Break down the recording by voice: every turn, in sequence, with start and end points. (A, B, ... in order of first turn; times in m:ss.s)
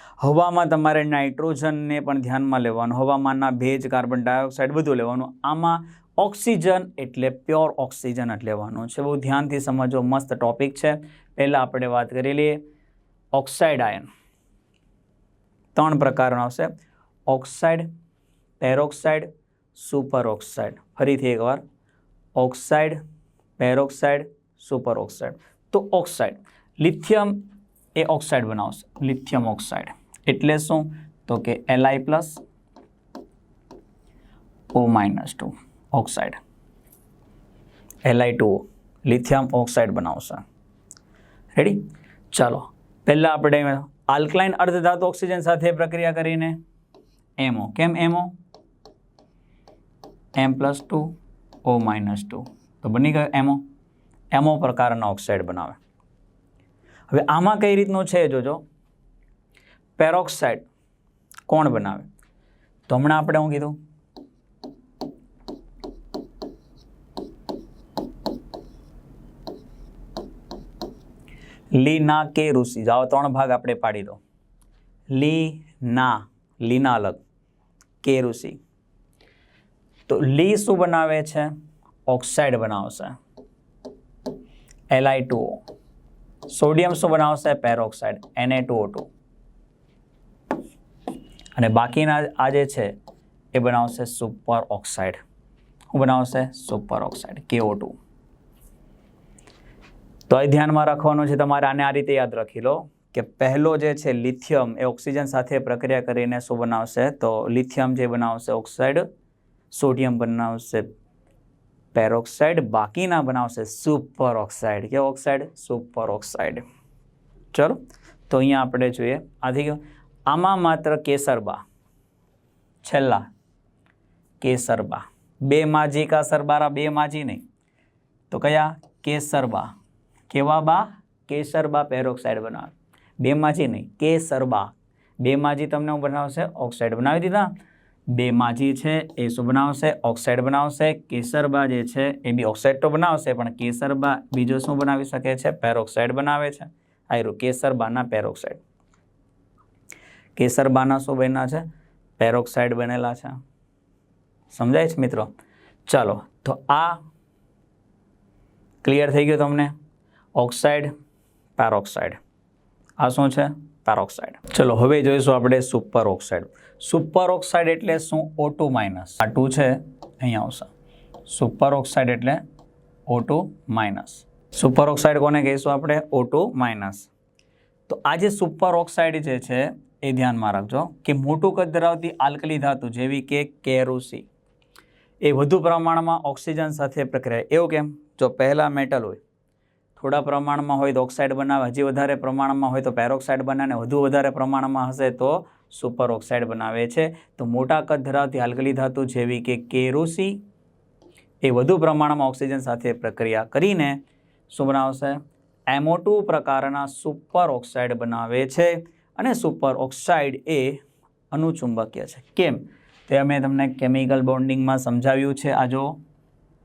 0:00.2-0:12.6 A
0:13.3-0:14.1 A
0:15.8-0:16.7 A
0:17.3-0:17.9 A
0:18.6-0:21.6 A
0:22.4-0:23.0 A
0:23.6-0:27.4 A
0:28.0-0:32.4 A
0:34.7-0:36.4 A
0:38.0-0:40.4 A
0:41.6-0:46.6 A
0:47.4-0:48.4 A
0:50.4-0:53.6 A
0:54.3-0:55.8 A
0:57.1-0:58.6 A
1:00.0-1:00.7 A
1:01.5-1:02.1 A
1:02.9-1:03.8 A
1:11.7-1:14.2 A
1:15.1-1:17.2 A
1:18.0-1:18.6 A
1:20.1-1:21.5 A
1:22.1-1:23.2 A
1:24.9-1:25.6 A
1:26.5-1:29.1 A
1:31.6-1:32.9 A
1:33.5-1:35.2 A
1:35.9-1:38.0 A
1:40.3-1:49.1 A
1:49.7-1:50.9 A
1:51.9-1:56.6 A
1:57.5-2:01.6 A
2:02.8-2:03.3 A
2:04.4-2:07.4 A
2:08.3-2:09.7 A
2:10.3-2:17.5 A
2:18.1-2:28.6 A
2:30.4-2:31.7 A
2:32.2-2:33.4 A
2:34.5-2:35.3 A
2:35.9-2:37.0 A
2:38.8-2:39.7 A
2:40.4-2:40.9 A
2:41.6-2:42.2 A
2:43.0-2:50.7 A
2:51.3-2:52.4 A
2:53.1-2:57.1 A
2:57.9-3:04.3 A
3:05.2-3:09.2 A
3:10.0-3:20.4 A
3:21.4-3:36.0 A